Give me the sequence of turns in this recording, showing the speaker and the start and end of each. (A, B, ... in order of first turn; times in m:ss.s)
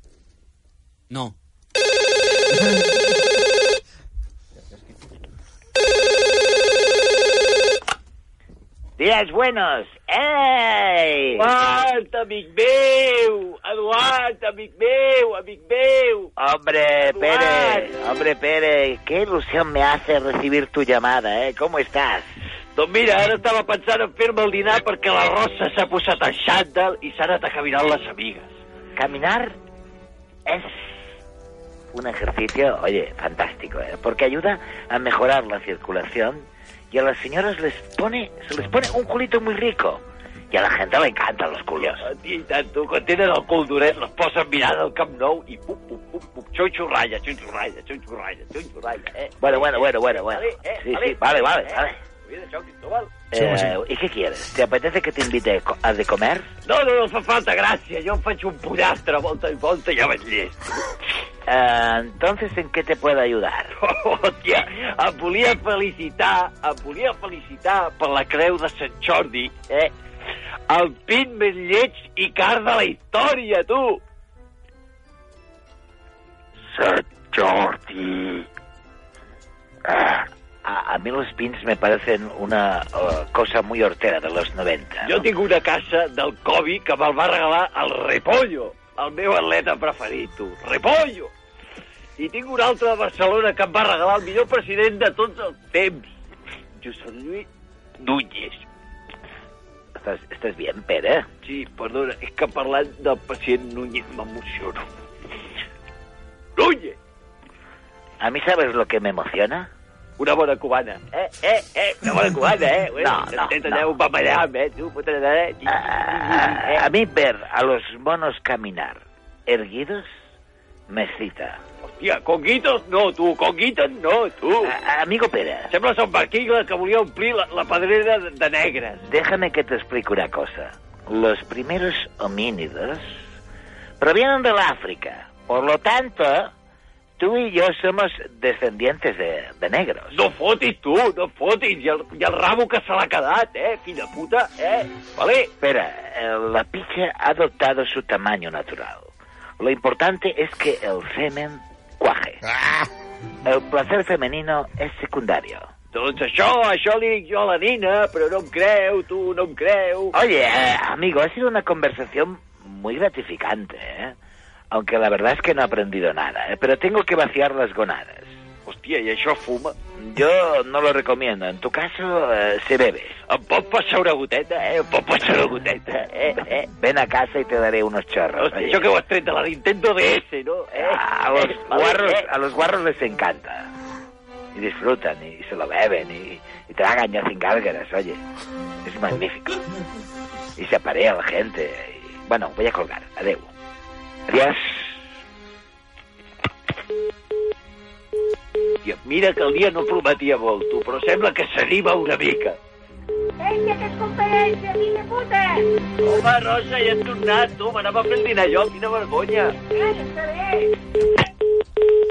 0:09.0-0:11.5 A
0:11.4-0:16.3 B
0:16.4-0:22.3 A
0:17.0-0:17.9 B
0:22.7-0:28.5 B
0:29.0-0:29.6 A
0:30.4-0:30.9 A
0:31.9-0:42.0 A
0:41.8-0:53.1 B
0:49.4-0:52.0 A
0:53.3-0:56.5 A
0:56.6-1:00.9 B
1:01.4-1:03.7 A
1:03.7-1:09.9 B
1:10.7-1:14.0 B
1:16.7-1:18.4 B
1:19.9-1:25.2 A
1:25.0-1:31.3 B
1:32.2-1:36.1 B
1:36.8-1:37.5 B
1:38.0-1:38.6 B
1:39.9-1:41.3 A
1:41.4-1:44.8 B
1:46.6-1:47.0 B
1:48.2-1:49.7 A
1:50.2-1:56.8 B
1:53.0-1:53.9 A
1:55.7-2:00.1 A
2:00.9-2:01.6 A
2:01.8-2:04.7 B
2:04.6-2:05.7 A
2:05.7-2:09.0 B
2:09.0-2:13.2 A
2:14.0-2:16.5 A
2:17.2-2:20.2 A
2:20.1-2:25.5 B
2:25.6-2:32.4 A
2:33.4-2:35.7 A
2:35.9-2:40.1 B
2:40.1-2:44.1 A
2:44.7-2:48.3 A
2:48.6-2:49.7 B
2:50.0-2:53.2 A
2:53.3-2:56.7 B
2:56.6-2:58.8 A
2:58.4-3:02.2 B
3:00.7-3:03.7 A
3:04.5-3:08.2 A
3:08.8-3:09.6 A
3:10.6-3:13.5 A
3:14.3-3:14.9 A
3:18.8-3:22.6 B
3:23.4-3:25.7 C
3:26.0-3:29.6 B
3:29.7-3:30.7 C